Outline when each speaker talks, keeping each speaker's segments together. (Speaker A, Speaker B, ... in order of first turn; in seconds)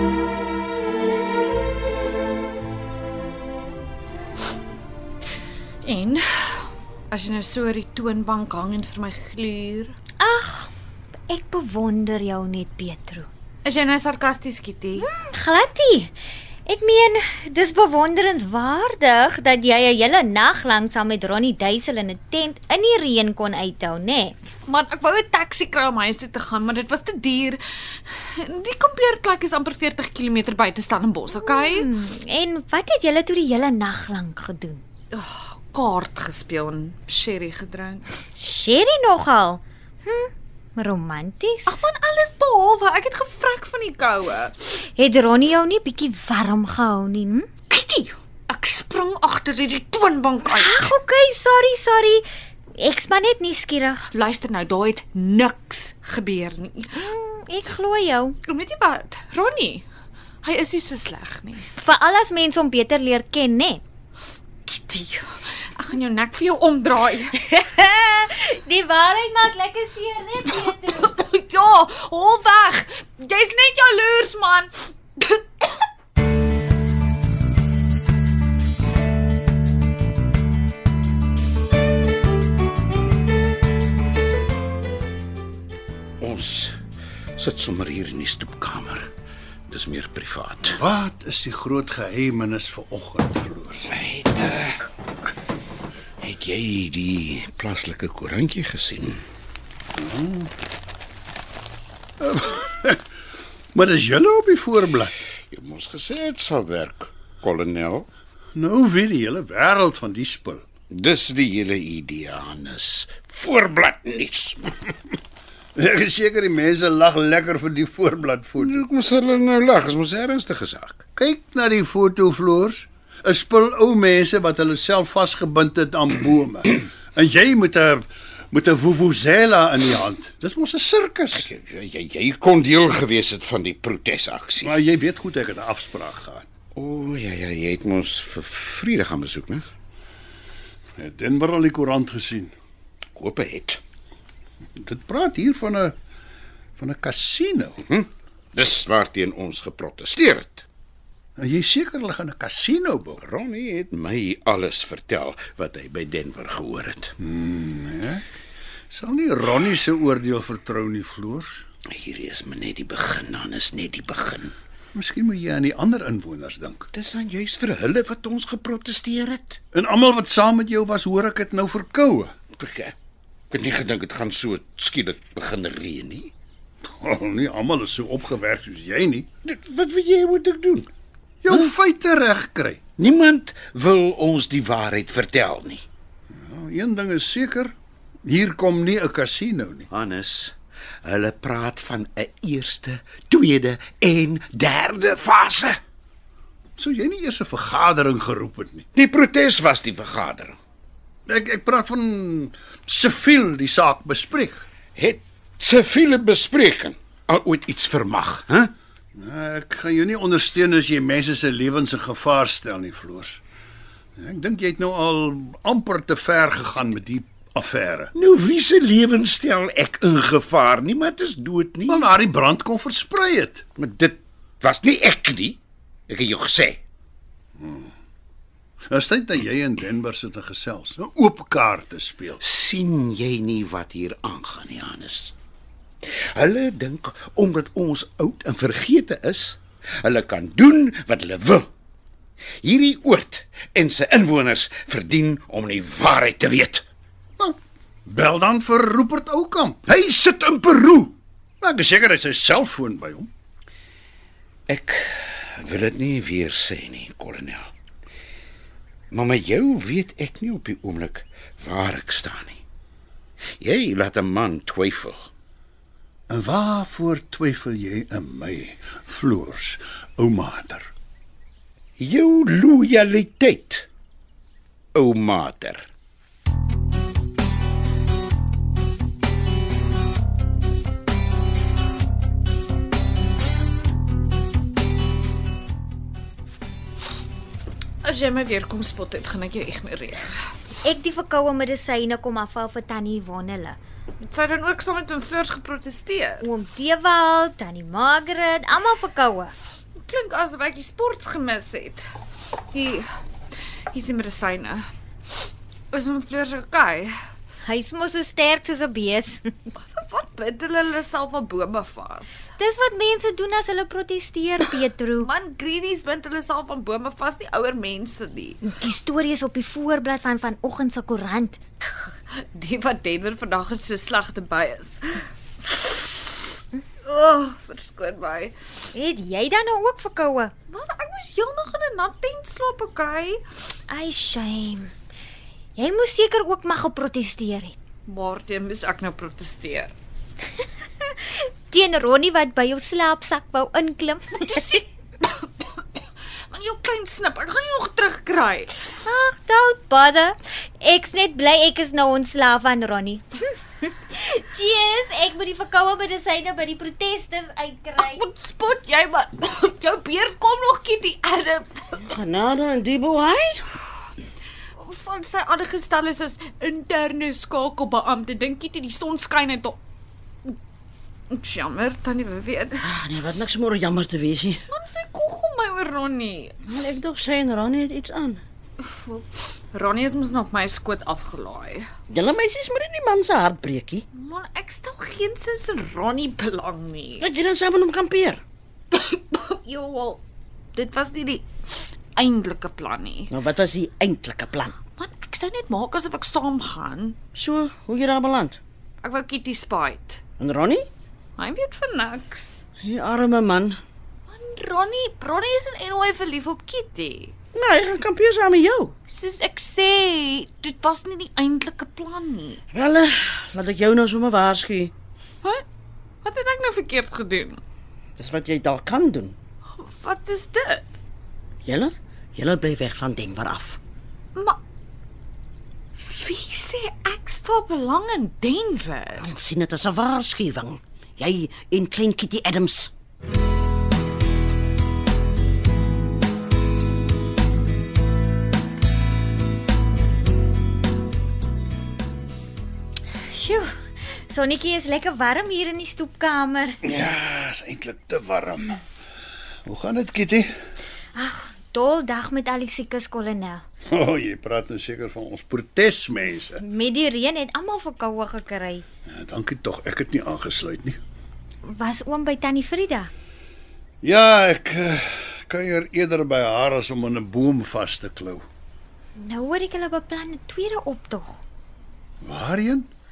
Speaker A: 5.8-9.9, 13.7-15.1, 24.7-31.9, 35.1-38.0, 41.7-44.5, 47.7-50.9, 54.1-56.9, 58.5-59.9, 60.4-61.7, 64.7-67.4, 70.5-75.7, 288.0-290.3, 294.2-296.5, 300.1-303.1, 303.9-304.9, 305.9-307.1, 309.8-312.5, 315.2-318.6, 322.6-326.1, 327.0-328.5, 330.7-333.4, 338.1-339.9, 344.4-345.8, 346.5-348.7, 358.0-362.0, 364.8-369.8, 371.3-372.9, 374.7-376.6, 378.8-381.9, 384.1-387.3, 388.9-390.2, 390.8-393.3, 394.9-397.2, 399.0-400.2, 401.4-402.6, 404.3-407.3, 409.1-412.6, 416.2-417.6, 419.8-421.0, 426.0-429.3
Speaker B: 10.2-10.7, 11.3-13.3, 15.0-16.1, 16.7-24.4, 31.3-34.8, 38.4-41.8, 44.8-47.5, 50.5-52.2, 52.8-54.0, 56.9-58.4, 61.8-63.8, 67.5-71.1, 290.8-293.8, 296.4-299.5, 307.6-309.5, 312.6-315.3, 318.6-321.6, 328.9-330.5, 333.9-334.9, 335.8-337.8, 341.7-344.6, 349.1-358.2, 443.3-446.8, 451.2-453.6, 456.6-458.9, 461.6-463.1, 469.2-471.4
Speaker C: 86.2-86.8, 87.4-89.1, 89.7-90.8, 93.9-94.8, 96.2-99.2, 105.5-108.1, 110.9-114.8, 118.6-121.0, 131.3-134.7, 136.8-139.7, 143.2-143.8, 147.9-150.7, 153.2-157.1, 161.9-164.5, 166.9-169.6, 172.6-172.9, 173.5-176.3, 179.4-180.9, 183.0-185.8, 189.9-195.8, 198.9-200.6, 205.0-208.7, 218.1-222.0, 223.8-226.8, 232.4-235.3, 236.1-241.7, 242.6-246.9, 254.7-257.7, 259.1-262.6, 263.6-265.2, 272.0-273.9, 274.9-275.9
Speaker D: 90.7-94.0, 100.0-100.5, 102.2-103.0, 103.7-105.1, 108.5-110.7, 115.8-118.8, 121.2-131.5, 134.6-136.5, 141.0-142.5, 144.8-145.9, 146.8-147.8, 151.4-153.2, 157.2-158.2, 158.9-161.7, 164.9-166.9, 169.7-172.3, 176.9-179.3, 181.4-182.8, 186.4-187.7, 188.3-189.9, 196.8-198.9, 201.3-204.7, 209.2-213.4, 214.2-218.1, 221.9-223.6, 227.6-227.9, 228.9-232.4, 247.4-251.1, 251.6-253.3, 266.3-270.9, 446.9-448.8, 449.7-450.5, 453.9-456.6, 459.1-461.0, 464.0-468.4, 472.2-472.9
Speaker E: 362.0-363.7, 372.8-374.6, 376.6-378.4, 382.1-384.0, 387.2-388.4, 393.3-394.8, 397.4-398.6, 400.4-400.9, 402.8-403.8, 407.5-408.9, 412.7-414.9, 418.2-419.4, 421.7-423.8, 429.2-432.9